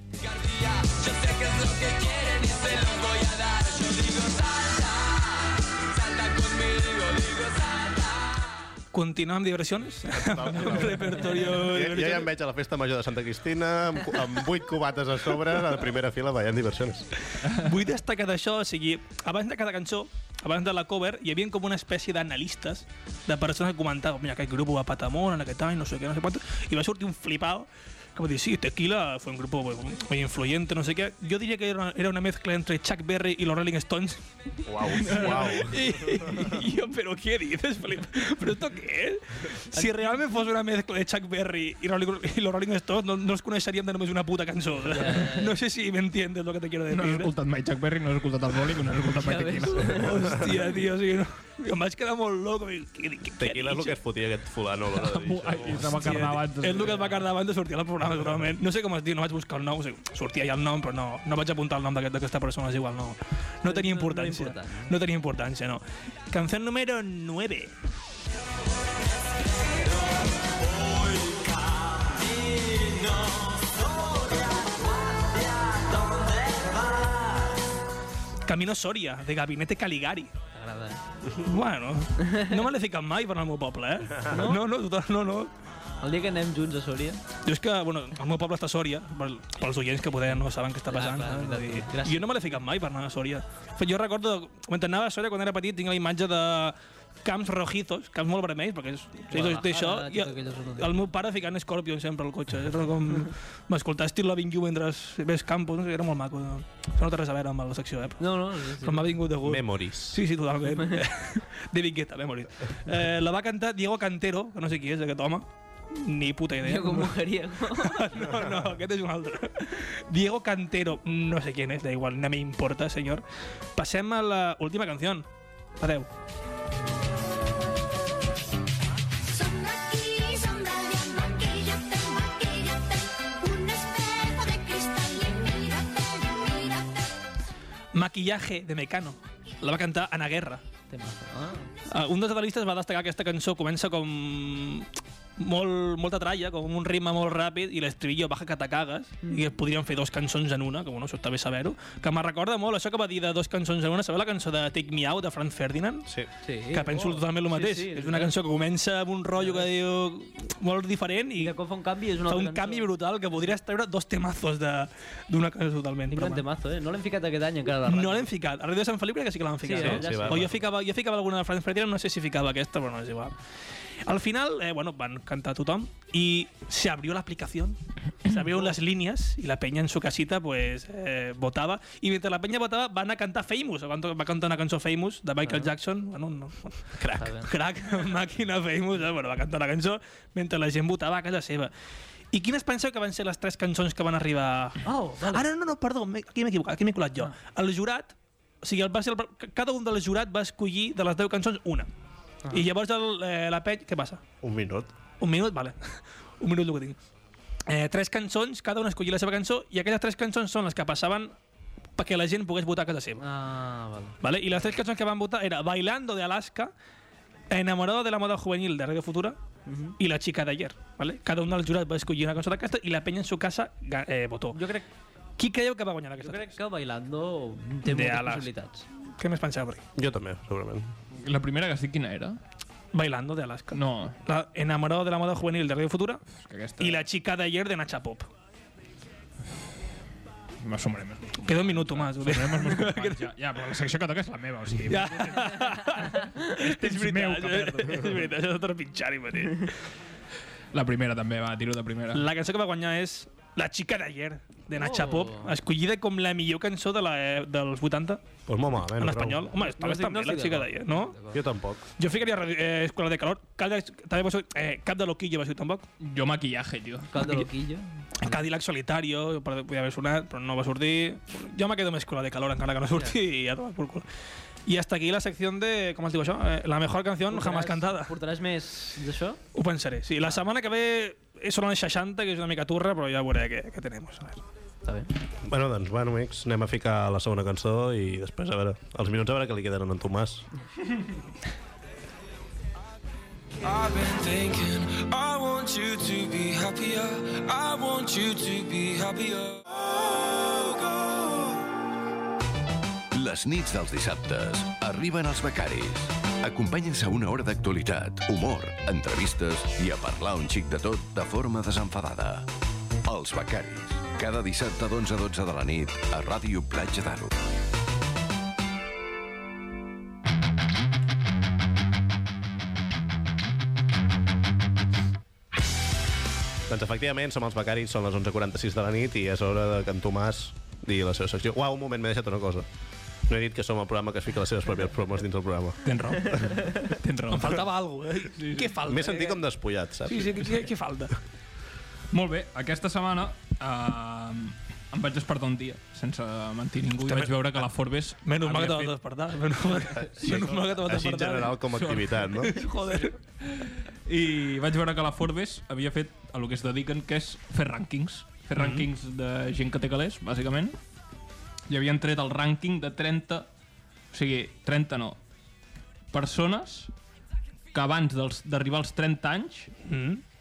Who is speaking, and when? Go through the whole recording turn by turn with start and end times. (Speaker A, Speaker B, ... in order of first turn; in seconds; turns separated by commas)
Speaker A: 0.2-8.5, Speaker B: 8.9-12.3, Speaker C: 10.1-17.1, Speaker B: 17.4-34.2, Speaker C: 34.6-36.5, Speaker B: 34.8-47.3, Speaker D: 39.7-40.1, Speaker D: 44.9-45.5, Speaker E: 46.9-50.3, Speaker D: 49.2-50.3, Speaker B: 49.9-54.0, Speaker C: 53.4-56.4, Speaker E: 54.9-57.2, Speaker B: 55.7-67.7, Speaker D: 63.6-64.9, Speaker A: 70.7-77.1, Speaker B: 78.5-80.3, Speaker D: 80.5-81.0, Speaker B: 81.4-85.5, Speaker D: 82.2-82.5, Speaker D: 84.3-84.6, Speaker D: 86.0-87.2, Speaker B: 87.5-108.2, Speaker D: 90.9-92.3, Speaker D: 99.3-101.0, Speaker D: 108.2-109.1, Speaker B: 108.8-123.2, Speaker C: 109.4-110.2, Speaker D: 116.6-118.2, Speaker B: 123.8-125.3, Speaker B: 125.8-126.1, Speaker F: 129.3-137.2, Speaker B: 137.9-140.6, Speaker D: 140.9-141.7, Speaker B: 141.9-156.1, Speaker D: 149.2-149.5, Speaker D: 156.4-158.3, Speaker B: 156.7-161.6, Speaker D: 159.4-159.7, Speaker D: 161.4-162.9, Speaker B: 162.3-166.4, Speaker D: 166.1-168.3, Speaker B: 167.9-173.4, Speaker D: 169.6-170.6, Speaker C: 169.8-170.6, Speaker B: 174.1-191.7, Speaker D: 185.4-185.7, Speaker D: 187.2-187.5, Speaker B: 192.3-201.9, Speaker D: 194.8-195.4, Speaker B: 202.5-204.2, Speaker C: 204.4-204.9, Speaker B: 205.2-207.0, Speaker B: 207.7-211.3, Speaker B: 212.0-213.2, Speaker D: 213.2-214.2, Speaker B: 214.2-216.7, Speaker B: 217.5-219.4, Speaker D: 219.7-220.0, Speaker B: 220.0-224.6, Speaker D: 224.5-224.9, Speaker B: 225.4-226.6, Speaker D: 226.2-228.8, Speaker B: 227.9-228.5, Speaker B: 229.2-229.8, Speaker C: 230.0-230.9, Speaker E: 231.2-232.4, Speaker B: 232.9-236.2, Speaker E: 233.7-234.2, Speaker E: 236.4-237.0, Speaker B: 236.8-238.3, Speaker E: 240.6-248.3, Speaker B: 241.5-243.3, Speaker B: 244.9-249.8, Speaker E: 250.7-252.2, Speaker B: 252.1-258.2, Speaker D: 254.8-255.5, Speaker C: 258.5-259.5, Speaker B: 258.9-261.2, Speaker D: 259.6-261.4, Speaker C: 261.3-261.8, Speaker B: 262.0-265.9, Speaker E: 266.0-267.5, Speaker D: 267.1-268.4, Speaker B: 268.2-274.1, Speaker B: 274.7-278.1, Speaker D: 277.3-279.4, Speaker B: 279.6-284.4, Speaker D: 284.9-285.1, Speaker C: 285.4-290.4, Speaker A: 293.6-301.6, Speaker G: 303.1-312.5, Speaker G: 313.1-317.4, Speaker C: 326.7-332.7, Speaker C: 333.3-336.5, Speaker E: 335.8-337.7, Speaker B: 337.3-339.4, Speaker E: 338.3-338.7, Speaker C: 338.9-340.5, Speaker B: 340.1-341.2, Speaker E: 342.1-349.0, Speaker B: 347.1-347.4, Speaker B: 348.2-351.6, Speaker C: 350.0-352.6, Speaker E: 351.7-360.8, Speaker B: 352.4-353.2, Speaker B: 358.6-358.9, Speaker E: 361.7-363.5, Speaker E: 364.1-365.2, Speaker E: 366.1-366.9, Speaker E: 367.7-369.7, Speaker B: 369.9-370.2